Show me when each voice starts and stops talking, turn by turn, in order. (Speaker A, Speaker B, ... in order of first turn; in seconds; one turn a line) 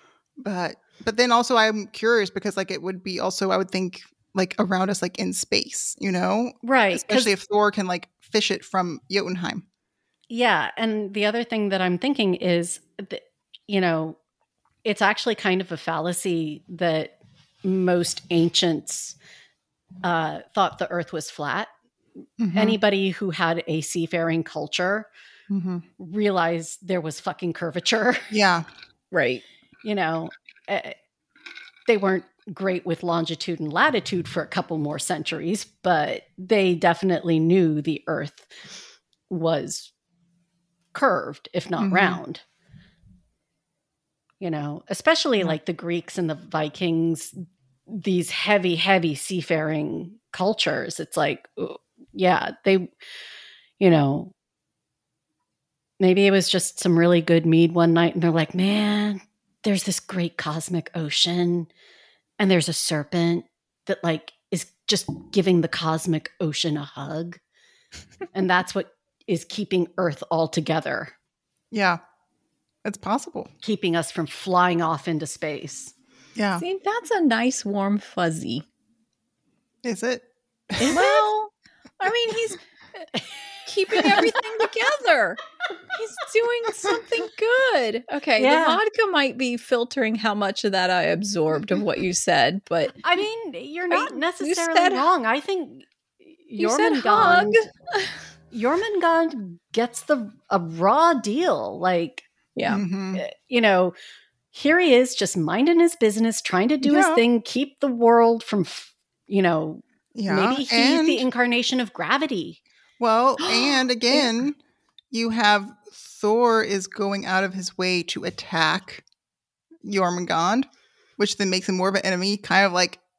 Speaker A: 0.4-9.6
Speaker B: 6.6-7.3
Speaker B: 10.3-14.2
Speaker B: 14.8-19.2
Speaker B: 20.0-21.7
Speaker A: 22.4-22.8
Speaker B: 22.5-25.1
Speaker A: 25.5-25.8
Speaker B: 26.0-28.3
Speaker A: 28.3-28.7
Speaker C: 29.1-29.4
Speaker B: 29.8-30.9
Speaker B: 31.9-38.5
Speaker B: 39.3-39.9
Speaker B: 40.9-42.4
Speaker A: 41.8-42.2
Speaker B: 44.4-47.4
Speaker B: 47.9-52.9
Speaker B: 53.8-54.3
Speaker B: 56.0-61.7
Speaker B: 62.4-67.4
Speaker B: 68.3-71.1
Speaker A: 71.7-72.0
Speaker A: 72.8-73.5
Speaker B: 73.6-75.9
Speaker A: 76.4-76.6
Speaker C: 76.6-78.6
Speaker A: 79.8-81.0
Speaker C: 80.8-82.6
Speaker B: 80.9-81.2
Speaker C: 83.7-85.4
Speaker B: 83.9-84.4
Speaker C: 85.9-93.0
Speaker B: 88.4-88.8
Speaker B: 93.0-97.7
Speaker C: 93.9-95.0
Speaker C: 96.6-98.1
Speaker B: 98.5-102.2
Speaker C: 102.5-102.8
Speaker A: 102.7-103.2
Speaker B: 103.1-103.9
Speaker B: 104.5-112.6
Speaker A: 106.8-107.2
Speaker A: 110.1-111.3
Speaker A: 113.0-114.6
Speaker C: 113.4-113.8
Speaker A: 115.1-119.0
Speaker A: 119.8-123.0